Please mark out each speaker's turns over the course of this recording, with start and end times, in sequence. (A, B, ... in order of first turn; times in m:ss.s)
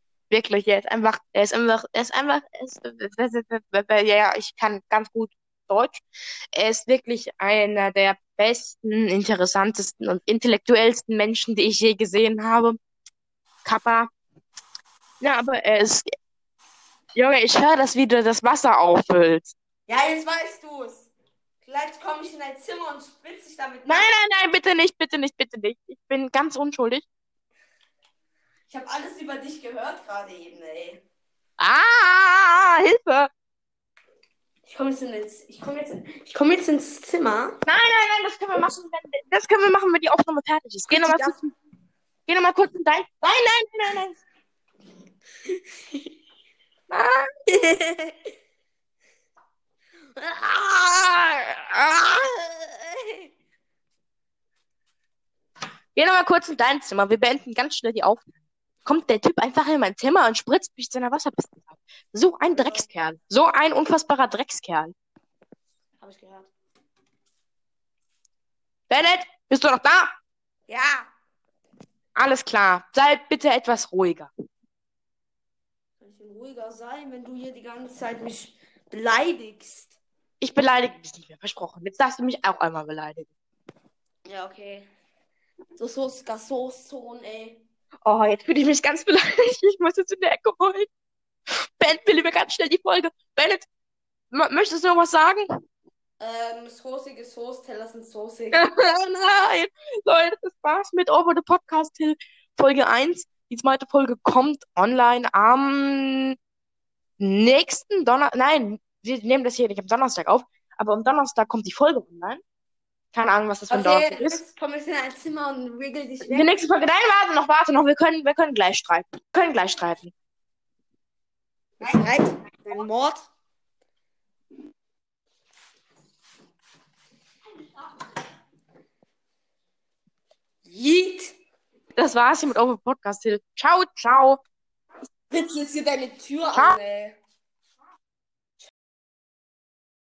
0:00.3-0:12.8 A
0:13.6-0:14.1 A
0:15.2-0:16.0 A
0:17.1-0:19.5 A
0:19.9-0:21.1 B
0:21.6-0:24.1 B
0:23.8-0:27.0 A
0:28.7-0:31.0 B
0:31.6-0:33.3 A
0:34.6-0:37.6 B
0:37.6-0:41.5 A
0:40.9-0:41.4 B
0:42.3-0:44.2 A
0:45.5-0:46.0 B
0:46.9-0:47.2 A
0:47.5-0:48.2 B
0:50.2-0:53.3 B
0:55.9-1:04.9 A
1:02.5-1:02.8 B
1:06.0-1:06.5 B
1:08.9-1:10.1 A
1:10.7-1:11.1 B
1:12.1-1:14.3 A
1:16.0-1:20.0 B
1:20.4-1:23.3 A
1:24.2-1:24.9 B
1:25.8-1:27.6 B
1:28.0-1:30.9 A
1:31.8-1:33.6 A
1:34.3-1:35.5 A
1:36.2-1:38.6 B
1:38.5-1:46.4 A
1:47.2-1:52.4 A
1:53.1-1:54.4 A
1:53.7-1:56.6 B
1:56.2-2:00.1 A
2:01.8-2:03.3 B
2:10.6-2:11.4 B
2:12.0-2:14.4 A
2:15.3-2:17.2 B
2:16.5-2:16.8 A